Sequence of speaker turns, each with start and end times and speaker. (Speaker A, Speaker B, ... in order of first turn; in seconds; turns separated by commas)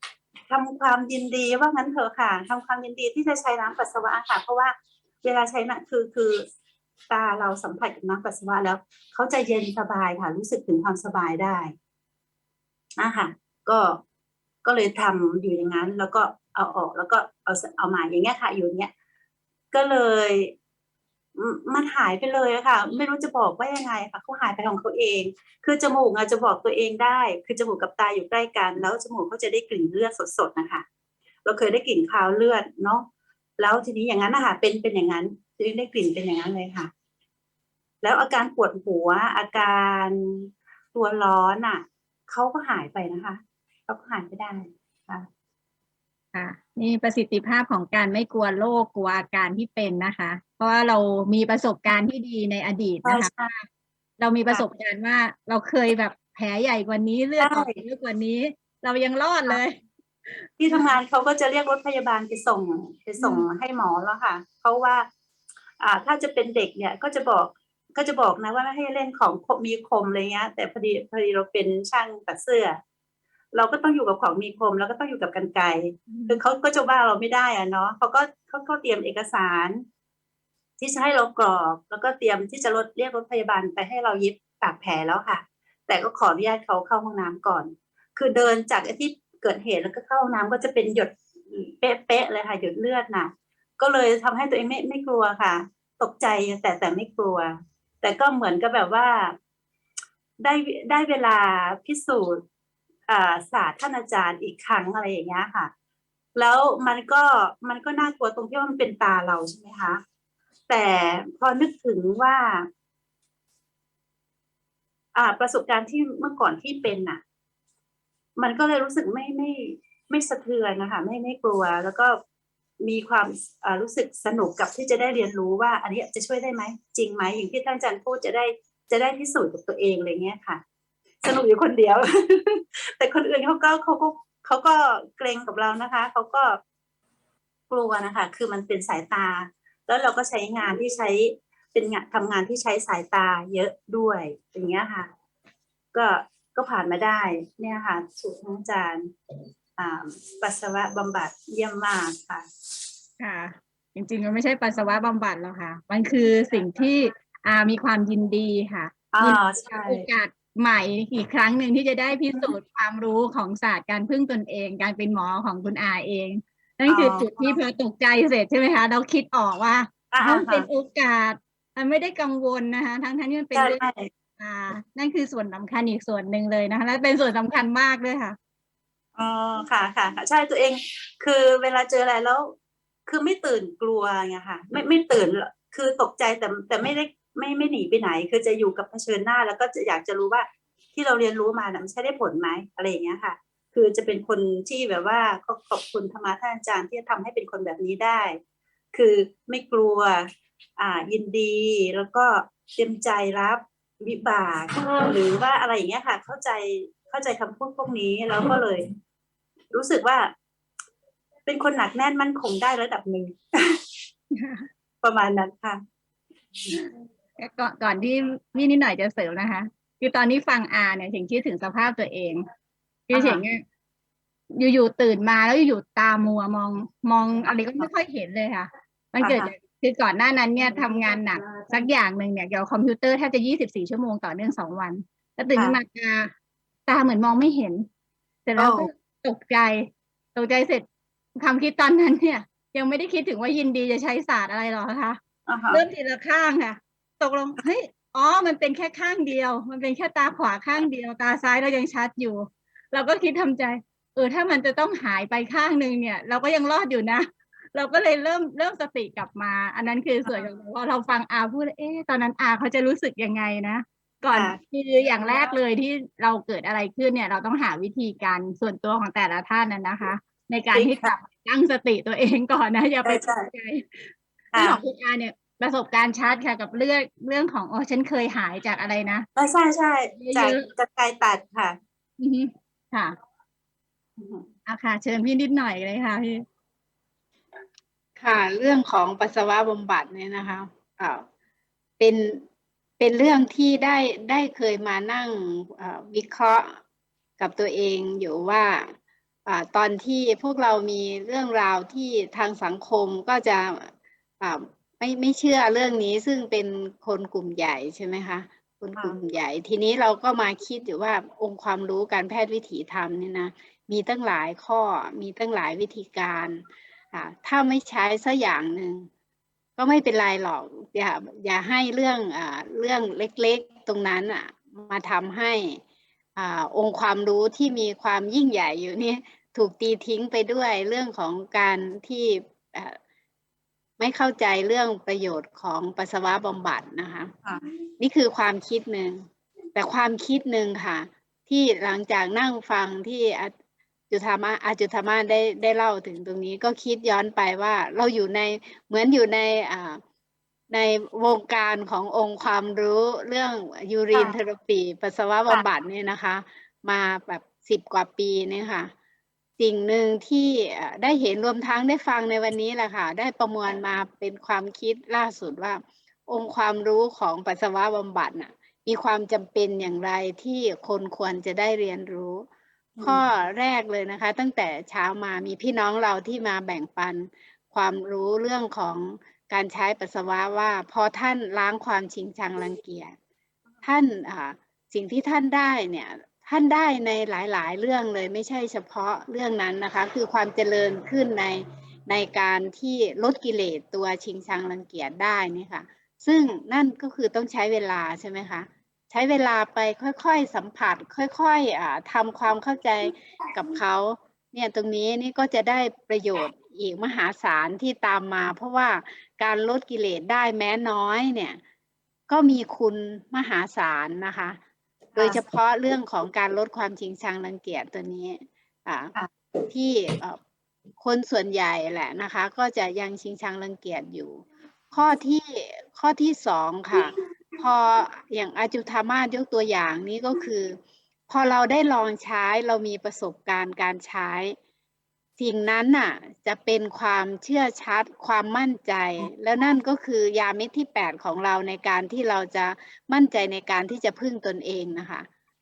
Speaker A: 0.5-6.4, Speaker A: 7.1-11.7, Speaker A: 13.0-14.0, Speaker A: 14.6-18.9, Speaker A: 19.7-20.5, Speaker A: 21.4-30.8, Speaker A: 31.4-33.0, Speaker A: 33.6-36.9, Speaker A: 38.0-45.3, Speaker B: 46.3-53.6, Speaker A: 53.0-53.5, Speaker B: 54.2-59.8, Speaker A: 57.4-57.8, Speaker A: 60.6-65.1, Speaker B: 63.2-63.5, Speaker A: 65.8-72.8, Speaker A: 73.5-79.8, Speaker B: 76.1-76.4, Speaker A: 80.8-99.3, Speaker A: 100.4-102.4, Speaker A: 103.1-105.7, Speaker A: 106.3-110.0, Speaker A: 110.7-112.7, Speaker A: 115.1-117.2, Speaker A: 118.4-122.2, Speaker A: 122.8-130.6, Speaker A: 131.2-136.6, Speaker A: 137.7-145.1, Speaker A: 145.9-149.1, Speaker A: 149.8-152.4, Speaker B: 153.2-173.8, Speaker A: 159.1-160.1, Speaker A: 166.9-167.6, Speaker A: 170.1-170.7, Speaker A: 173.5-174.1, Speaker B: 174.4-178.4, Speaker A: 179.2-182.5, Speaker A: 183.1-198.4, Speaker A: 198.9-208.8, Speaker A: 209.7-210.3, Speaker A: 211.4-213.8, Speaker B: 214.3-214.7, Speaker A: 215.0-215.8, Speaker B: 217.4-222.4, Speaker B: 223.1-223.6, Speaker A: 223.1-223.4, Speaker B: 224.5-236.3, Speaker A: 229.2-229.5, Speaker A: 230.6-231.9, Speaker A: 235.5-235.8, Speaker B: 236.9-237.9, Speaker B: 238.4-240.8, Speaker A: 238.6-238.9, Speaker B: 241.3-245.2, Speaker A: 245.5-245.8, Speaker B: 245.7-279.3, Speaker A: 264.3-264.6, Speaker A: 265.2-265.5, Speaker A: 270.7-271.1, Speaker A: 273.0-273.5, Speaker A: 274.5-274.8, Speaker A: 279.4-281.8, Speaker B: 280.2-280.6, Speaker B: 282.2-283.1, Speaker A: 284.2-284.5, Speaker B: 284.6-286.4, Speaker C: 288.2-291.2, Speaker C: 292.0-292.4, Speaker C: 293.0-296.7, Speaker C: 297.4-298.9, Speaker C: 299.5-319.1, Speaker C: 319.8-325.8, Speaker C: 326.4-333.0, Speaker C: 334.0-337.3, Speaker C: 338.0-339.2, Speaker C: 339.7-343.5, Speaker C: 344.1-350.0, Speaker C: 350.7-358.9, Speaker C: 359.6-372.4, Speaker A: 373.0-373.2, Speaker C: 373.0-383.1, Speaker C: 383.8-411.6, Speaker C: 412.3-414.6, Speaker A: 415.1-415.4, Speaker C: 415.1-419.1, Speaker C: 419.7-420.4, Speaker C: 421.0-430.8, Speaker C: 431.3-434.5, Speaker C: 435.4-445.2